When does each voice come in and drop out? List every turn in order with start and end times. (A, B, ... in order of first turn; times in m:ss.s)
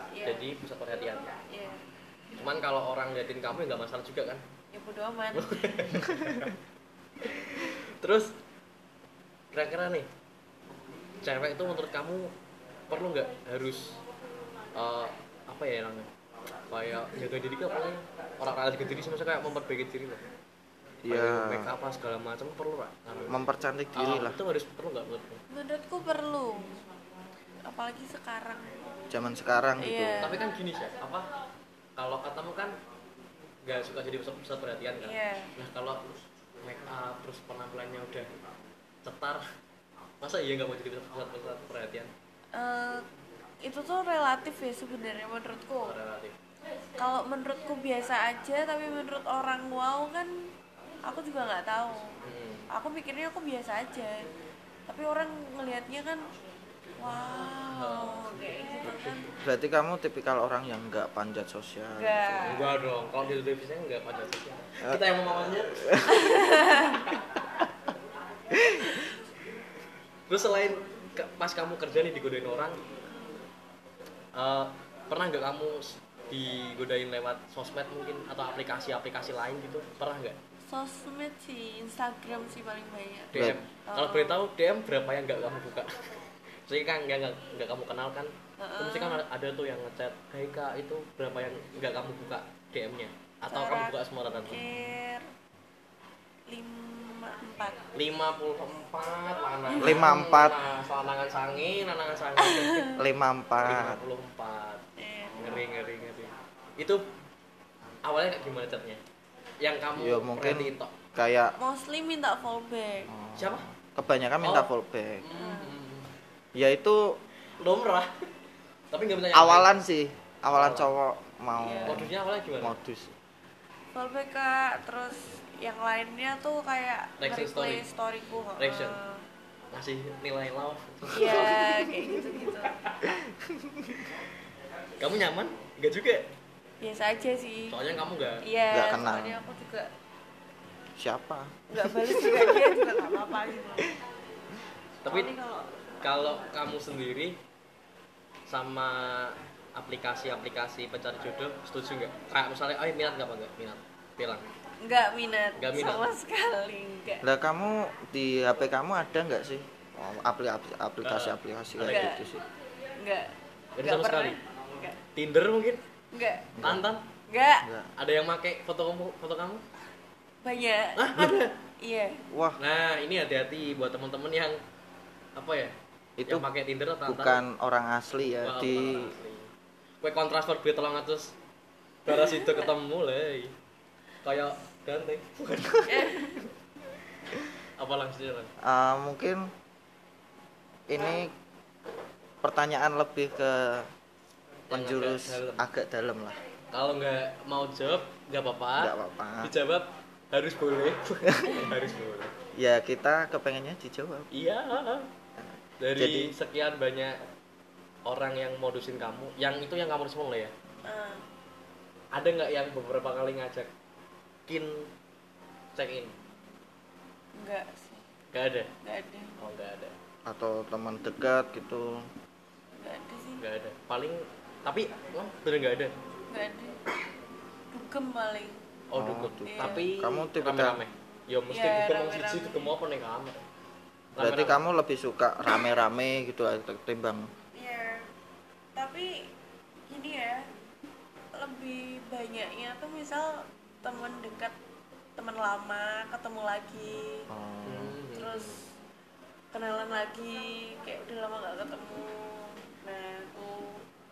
0:00.1-0:00.5 A
0:00.2-0:01.3 B
0:01.5-0:01.8 A
0:02.4-0:04.4 B
0:04.7-0:06.0 A
0:05.3-0:06.6 B
0:07.2-0:08.4 B
0:09.5-0:10.1 B
0:11.2-0:12.3 B
0:12.9-0:14.0 B
0:14.7-0:16.1 B
0:16.7-0:20.2 B
0:21.0-0:25.4 B
0:21.0-0:21.7 C
0:23.3-0:24.4 C
0:25.5-0:26.8 A
0:27.6-0:28.8 A
0:29.1-0:30.4 C
0:29.8-0:30.4 A
0:30.2-0:31.3 B
0:32.0-0:32.8 B
0:33.6-0:38.3 B
0:35.0-0:35.5 A
0:39.0-0:39.4 B
0:40.2-0:42.1 B
0:42.5-0:43.0 A
0:43.6-0:46.0 A
0:45.8-0:46.4 B
0:47.0-0:50.5 A
0:51.0-0:52.2 A
0:52.2-0:52.7 B
0:52.7-0:54.3 A
0:54.9-0:56.3 A
0:57.0-0:59.3 A
0:57.6-0:59.3 B
0:59.4-1:02.4 C
1:02.0-1:02.7 A
1:02.4-1:05.9 B
1:05.7-1:06.3 C
1:06.1-1:07.0 A
1:08.5-1:08.9 C
1:10.3-1:12.8 B
1:14.3-1:20.4 B
1:20.7-1:24.4 A
1:23.3-1:26.1 B
1:23.3-1:23.6 C
1:26.7-1:34.6 B
1:28.6-1:29.2 A
1:33.5-1:35.2 A
1:36.5-1:37.8 A
1:37.9-1:42.9 B
1:39.7-1:40.0 A
1:39.8-1:40.6 C
1:42.4-1:43.0 A
1:43.0-1:44.0 C
1:43.6-1:44.8 B
1:45.0-1:45.6 A
1:45.4-1:47.0 B
1:48.0-1:49.0 B
1:49.6-1:50.9 B
1:50.0-1:51.6 C
1:51.6-1:53.1 A
1:53.1-1:55.2 C
1:53.4-1:53.7 B
1:54.4-1:54.7 B
1:55.2-1:56.1 B
1:55.3-1:55.7 A
1:56.5-1:57.2 C
1:57.6-1:58.1 B
1:58.9-1:59.8 B
1:59.3-2:03.1 C
2:00.5-2:00.9 B
2:01.6-2:02.0 A
2:01.8-2:02.8 B
2:03.9-2:09.2 A
2:07.2-2:07.8 B
2:08.6-2:09.0 B
2:09.7-2:11.9 B
2:11.1-2:12.8 A
2:12.6-2:13.2 B
2:13.2-2:14.2 C
2:15.0-2:16.3 B
2:16.8-2:17.8 A
2:17.7-2:18.4 B
2:18.4-2:19.9 A
2:18.7-2:19.4 C
2:21.0-2:23.0 C
2:21.7-2:23.9 A
2:25.0-2:25.3 B
2:25.1-2:25.7 A
2:26.0-2:27.4 B
2:28.5-2:34.5 B
2:34.8-2:37.2 A
2:35.6-2:36.1 B
2:37.2-2:42.4 C
2:41.0-2:42.1 B
2:41.8-2:42.2 A
2:43.0-2:45.0 A
2:43.8-2:44.4 B
2:45.1-2:45.8 B
2:46.1-2:46.5 A
2:46.6-2:46.8 C
2:46.6-2:47.1 B
2:47.3-2:47.7 A
2:47.6-2:47.9 C
2:48.0-2:49.6 B
2:50.4-2:52.2 A
2:51.0-2:51.6 B
2:52.3-2:52.6 C
2:52.6-2:54.6 B
2:55.4-2:55.7 B
2:56.2-2:56.4 C
2:56.3-2:57.4 B
2:57.0-2:59.1 C
2:58.3-2:59.5 B
3:00.0-3:01.3 B
3:02.0-3:03.5 B
3:02.2-3:02.7 A
3:04.2-3:06.1 B
3:05.8-3:06.4 A
3:07.8-3:08.5 B
3:08.6-3:09.5 C
3:10.9-3:11.3 C
3:12.4-3:13.9 C
3:14.7-3:15.6 B
3:14.7-3:16.4 C
3:16.7-3:22.3 B
3:18.8-3:19.5 C
3:22.5-3:24.3 C
3:24.3-3:25.1 B
3:25.4-3:26.3 C
3:25.8-3:27.2 B
3:28.0-3:30.5 B
3:30.8-3:31.2 A
3:32.1-3:33.7 B
3:34.5-3:34.9 B
3:35.7-3:36.1 B
3:37.3-3:38.0 A
3:38.3-3:38.7 B
3:38.8-3:39.3 A
3:39.4-3:39.9 B
3:40.2-3:42.1 C
3:42.8-3:43.4 A
3:43.4-3:45.9 B
3:46.3-3:46.8 A
3:47.7-3:48.6 A
3:48.9-3:53.4 B
3:49.0-3:50.8 C
3:49.5-3:49.9 A
3:51.5-3:52.7 A
3:54.2-3:54.6 B
3:54.2-3:57.3 C
3:57.5-3:58.1 A
3:58.7-3:59.3 A
3:59.9-4:00.5 A
4:01.3-4:04.5 A
4:05.2-4:07.3 A
4:07.3-4:08.0 C
4:07.6-4:08.6 B
4:08.1-4:08.7 A
4:09.5-4:13.8 A